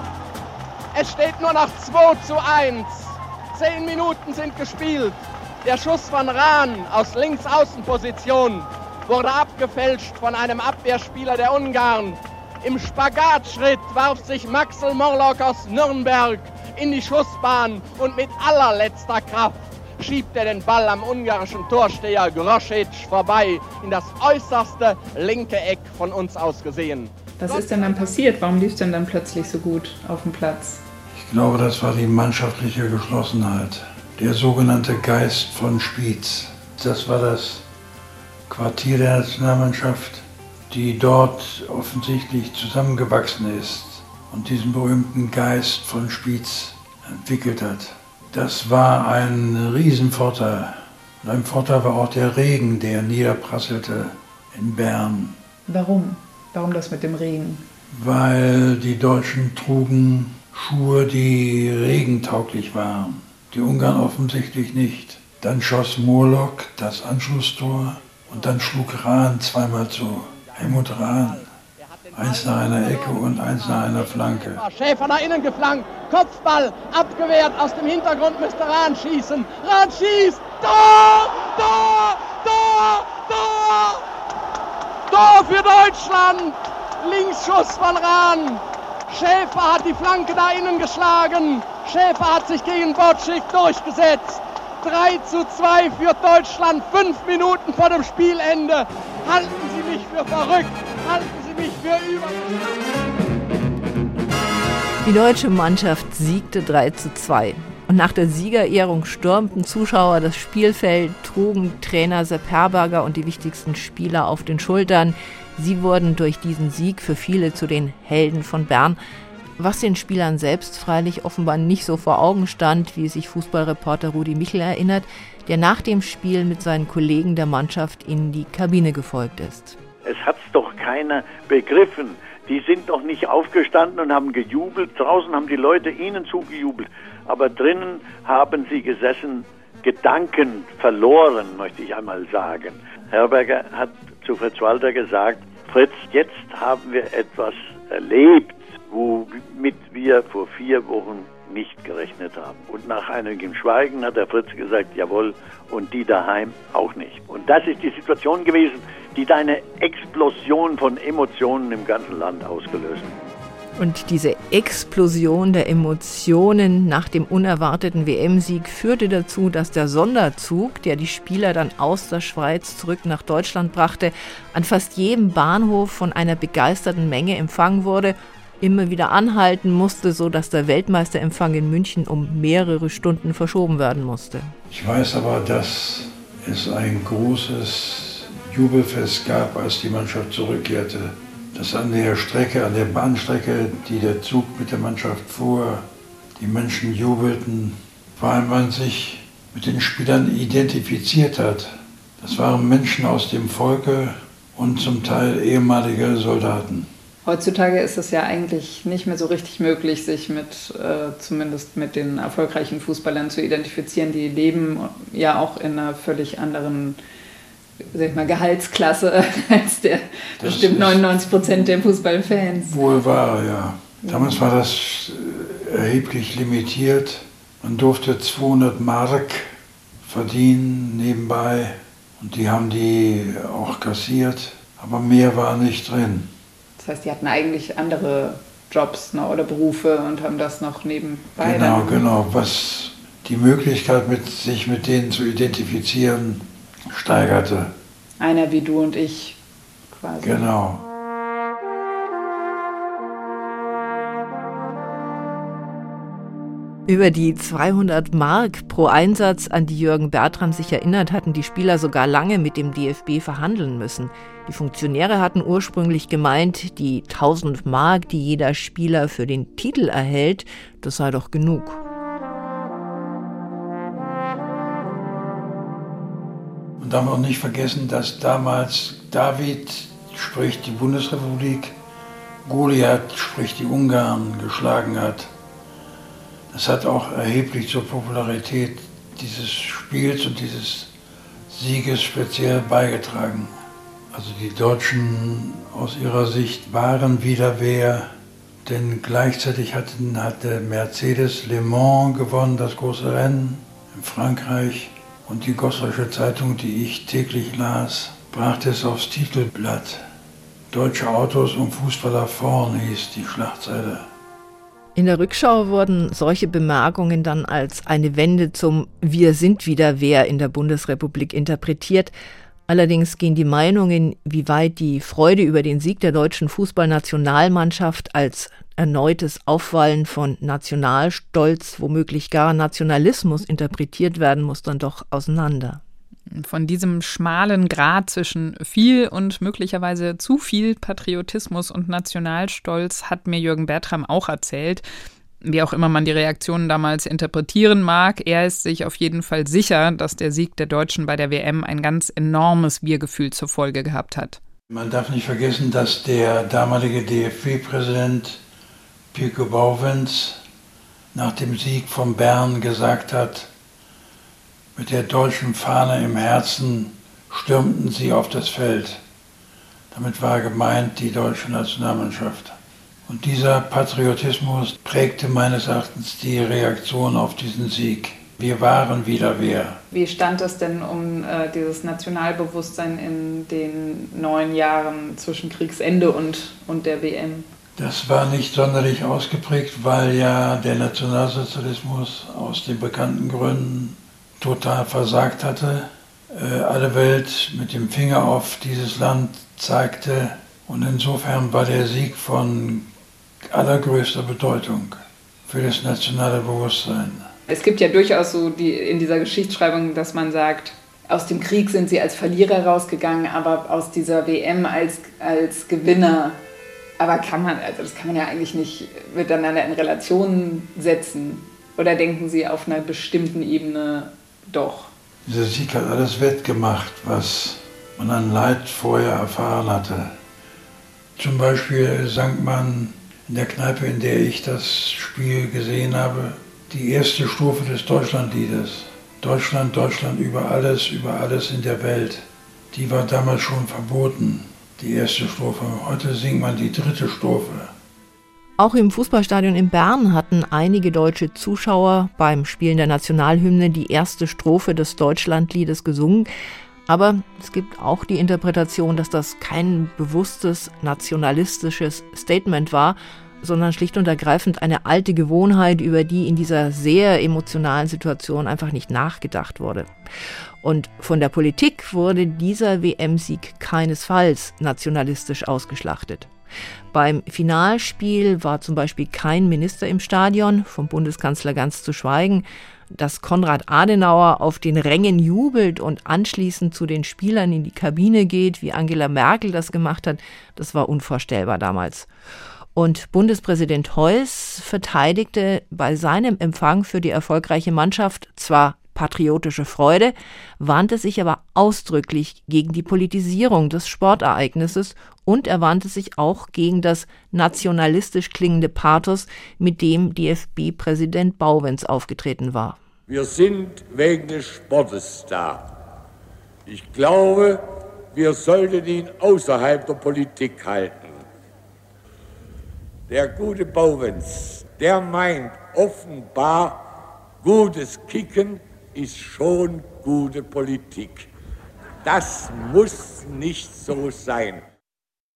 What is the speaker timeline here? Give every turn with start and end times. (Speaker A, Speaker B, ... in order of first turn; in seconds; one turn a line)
Speaker A: 0.9-28.2
Speaker B: 27.4-30.8
Speaker C: 31.1-37.6
Speaker C: 38.5-55.4
Speaker B: 55.7-57.6
Speaker C: 57.9-71.5
Speaker A: 71.0-84.0
Speaker C: 72.1-74.6
Speaker A: 85.1-102.7
Speaker D: 105.0-119.0
Speaker D: 119.6-129.8
Speaker E: 130.1-163.1
Speaker D: 163.8-184.5
Speaker C: 184.7-195.8
Speaker C: 196.4-206.9
Speaker B: 207.2-217.0
Speaker B: 217.9-222.8
Speaker C: 220.4-221.0
Speaker C: 222.6-229.5
Speaker B: 224.0-224.4
Speaker C: 230.0-236.3
Speaker B: 236.8-242.1
Speaker C: 241.4-247.7
Speaker B: 248.2-249.4
Speaker B: 249.9-250.5
Speaker C: 250.2-250.8
Speaker D: 256.9-271.8
Speaker C: 276.8-281.8
Speaker C: 282.4-285.3
Speaker C: 286.5-290.9
Speaker C: 291.5-293.5
Speaker C: 294.1-298.1
Speaker C: 298.6-310.0
Speaker C: 310.7-314.1
Speaker D: 314.9-322.1
Speaker D: 322.7-335.8
Speaker B: 336.3-344.9
Speaker B: 345.4-354.4
Speaker C: 354.7-358.4
Speaker C: 359.1-360.4
Speaker C: 361.1-363.5
Speaker C: 364.8-369.0
Speaker C: 369.9-372.6
Speaker C: 373.1-379.8
Speaker B: 379.9-387.5
Speaker C: 387.8-402.9
Speaker C: 403.5-407.3
Speaker B: 407.5-416.4
Speaker B: 417.0-424.9
Speaker C: 425.3-430.1
Speaker C: 431.2-447.7
Speaker D: 448.6-456.3
Speaker D: 456.9-469.9
Speaker D: 470.6-476.3
Speaker D: 476.9-492.1
Speaker D: 492.8-512.8
Speaker F: 513.1-515.6
Speaker F: 516.6-517.6
Speaker F: 518.1-521.2
Speaker F: 523.1-526.8
Speaker F: 527.4-531.3
Speaker F: 532.0-534.7